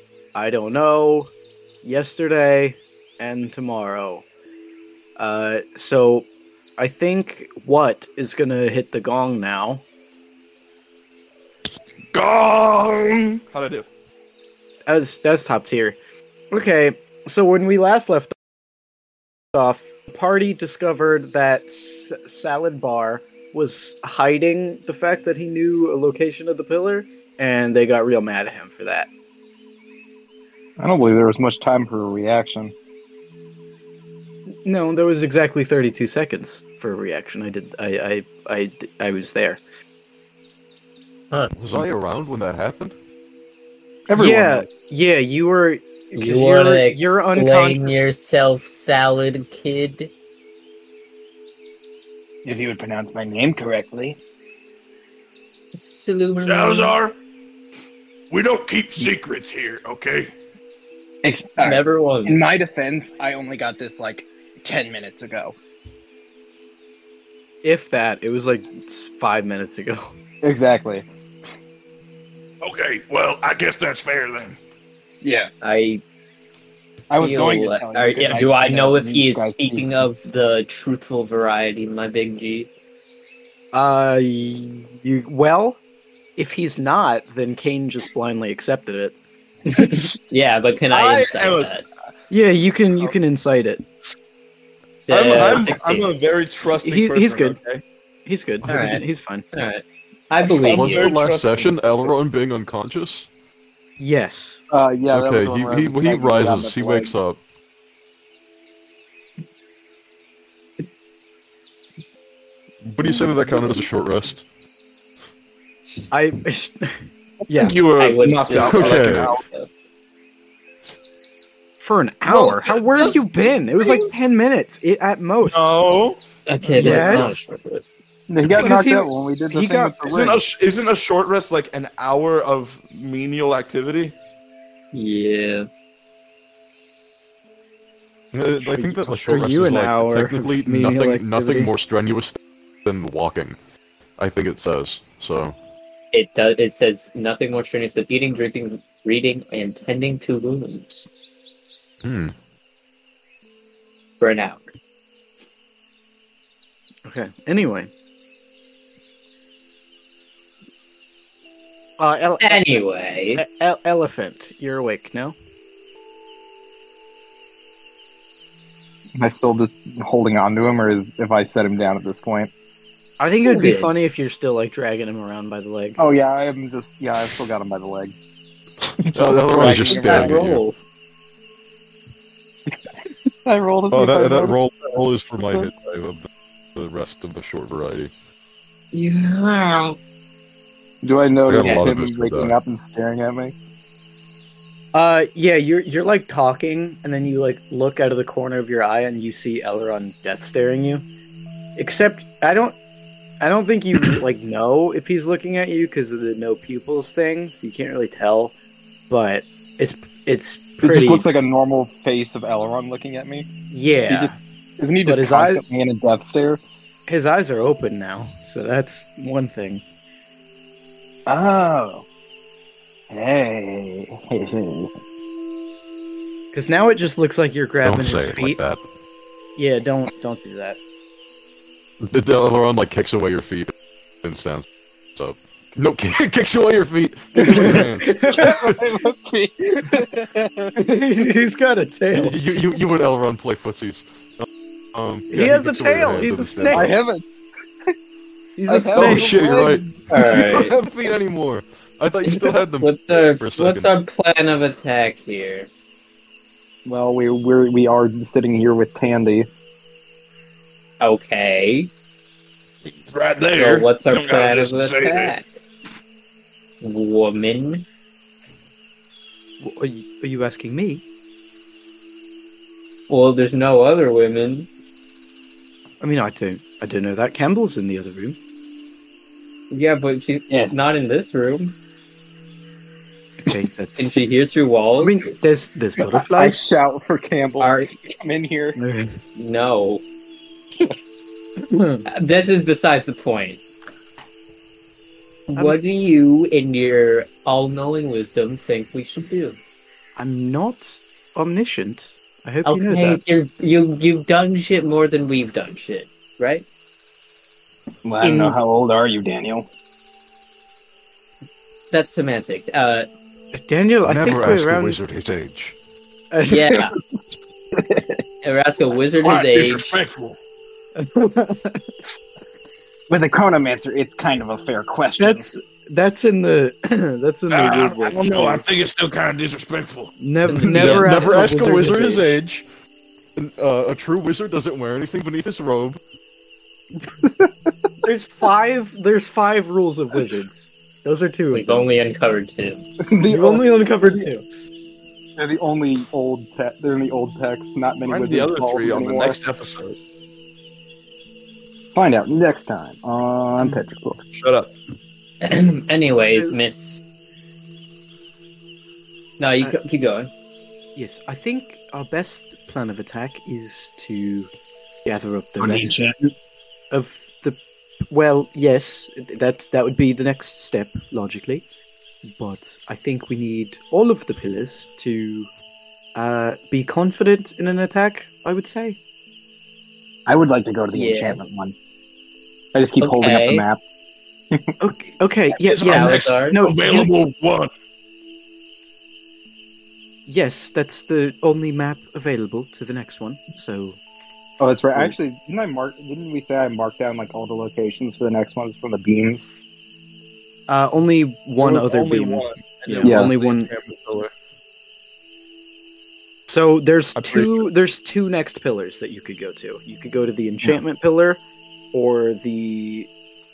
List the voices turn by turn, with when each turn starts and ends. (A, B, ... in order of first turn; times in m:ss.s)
0:00.3-0:01.3 A
0:01.8-0:04.2 A
0:05.2-0:09.8 A
0:12.1-0:13.9 B
0:14.9-0:16.0 A
0:16.5-0:18.3 A
0:19.5-0:29.1 A
0:30.8-0:32.7 C
0:34.6-0:39.6 A
0:41.5-0:42.9 D
0:44.1-0:44.7 C
0:44.2-0:48.1 A
0:46.2-0:50.1 E
0:52.4-0:54.2 C
0:55.7-0:57.0 E
0:56.4-0:57.1 B
0:58.3-1:00.3 B
1:01.2-1:05.6 C
1:01.6-1:02.6 E
1:07.6-1:10.1 A
1:10.4-1:11.0 C
1:12.6-1:14.6 B
1:15.2-1:15.5 C
1:15.6-1:16.0 E
1:17.1-1:19.8 C
1:17.2-1:22.7 E
1:23.7-1:25.8 A
1:26.4-1:29.1 A
1:29.7-1:31.8 E
1:30.9-1:31.8 B
1:32.3-1:33.8 A
1:35.0-1:36.1 E
1:35.1-1:37.8 B
1:36.7-1:37.6 A
1:38.2-1:39.4 A
1:38.6-1:41.1 E
1:40.4-1:42.1 B
1:40.6-1:43.3 D
1:44.0-1:44.6 A
1:44.7-1:47.1 C
1:45.1-1:47.4 D
1:52.8-1:54.4 D
1:56.1-1:57.8 A
1:57.5-1:59.4 B
1:58.0-1:59.7 E
1:58.5-1:59.4 D
2:01.8-2:05.6 A
2:02.3-2:03.2 B
2:05.4-2:07.4 B
2:06.4-2:08.0 E
2:06.8-2:07.4 A
2:08.3-2:10.4 C
2:08.6-2:10.0 A
2:10.1-2:14.1 B
2:14.9-2:15.7 E
2:18.3-2:23.6 D
2:18.6-2:21.7 A
2:24.2-2:25.5 D
2:26.1-2:31.0 E
2:32.0-2:32.3 D
2:34.2-2:34.6 E
2:37.0-2:37.9 A
2:42.0-2:42.8 A
2:42.4-2:43.4 E
2:43.4-2:45.3 A
2:49.2-2:52.5 C
2:53.2-2:56.0 A
2:53.4-2:53.9 E
2:56.0-2:58.1 C
2:58.8-3:00.6 D
2:59.0-3:00.4 C
2:59.5-3:00.8 E
3:03.4-3:04.6 C
3:03.9-3:08.1 D
3:08.9-3:10.0 E
3:11.0-3:13.5 C
3:11.5-3:12.5 D
3:11.6-3:11.9 E
3:14.9-3:21.0 A
3:21.8-3:22.8 A
3:23.4-3:28.5 A
3:29.1-3:31.2 A
3:30.8-3:33.5 C
3:33.7-3:34.4 A
3:34.0-3:36.6 C
3:35.0-3:35.6 A
3:37.1-3:39.8 A
3:41.3-3:42.0 C
3:43.1-3:44.9 C
3:46.5-3:48.6 A
3:47.8-3:48.8 D
3:49.6-3:50.8 A
3:52.0-3:58.8 D
3:57.4-4:00.7 C
3:57.5-3:58.5 A
4:00.7-4:02.4 A
4:02.1-4:06.9 D
4:05.3-4:07.0 A
4:06.7-4:07.2 C
4:08.6-4:09.4 A
4:08.7-4:09.9 C
4:08.9-4:13.9 D
4:10.1-4:10.7 E
4:12.3-4:15.7 E
4:16.8-4:19.5 C
4:21.0-4:21.9 E
4:23.1-4:25.3 B
4:23.5-4:25.4 E
4:26.8-4:27.8 E
4:29.6-4:31.0 A
4:33.1-4:34.7 E
4:36.0-4:38.4 A
4:39.7-4:41.7 E
4:43.4-4:44.2 A
4:44.0-4:45.3 E
4:45.0-4:46.6 A
4:46.0-4:48.8 C
4:47.6-4:47.9 E
4:48.8-4:49.2 A
4:49.4-4:50.0 E
4:51.6-4:52.0 A
4:52.0-4:53.6 E
4:55.5-4:59.6 E
5:00.2-5:03.2 A
5:02.6-5:06.6 E
5:08.0-5:09.6 C
5:08.2-5:08.6 A
5:11.9-5:13.1 E
5:13.5-5:15.0 A
5:14.0-5:15.7 D
5:16.3-5:16.8 A
5:16.5-5:16.9 E
5:16.7-5:18.2 C
5:18.4-5:20.0 E
5:19.2-5:20.4 B
5:21.0-5:21.8 A
5:23.1-5:25.5 C
5:25.2-5:28.6 A
5:27.5-5:30.1 B
5:30.2-5:32.4 A
5:30.4-5:31.2 E
5:30.5-5:32.6 D
5:33.4-5:36.0 D
5:38.0-5:41.9 A
5:41.5-5:42.8 E
5:43.0-5:44.3 C
5:43.2-5:44.4 A
5:45.4-5:49.4 C
5:48.1-5:50.0 B
5:51.9-5:54.2 C
5:54.3-5:54.7 B
5:55.4-5:57.0 E
5:56.3-5:56.6 A
5:59.4-6:00.3 E
6:01.0-6:04.5 A
6:05.0-6:06.0 A
6:05.6-6:06.3 C
6:06.9-6:11.6 A
6:12.2-6:15.5 A
6:16.1-6:19.0 A
6:20.3-6:21.7 C
6:20.9-6:21.4 E
6:22.7-6:23.8 C
6:23.0-6:23.6 E
6:24.8-6:27.1 A
6:25.6-6:27.7 B
6:25.8-6:26.6 E
6:30.2-6:34.0 A
6:34.6-6:39.4 C
6:40.7-6:43.7 A
6:41.6-6:44.3 B
6:43.0-6:43.3 C
6:46.5-6:51.4 A
6:47.2-6:47.6 B
6:51.9-6:53.1 A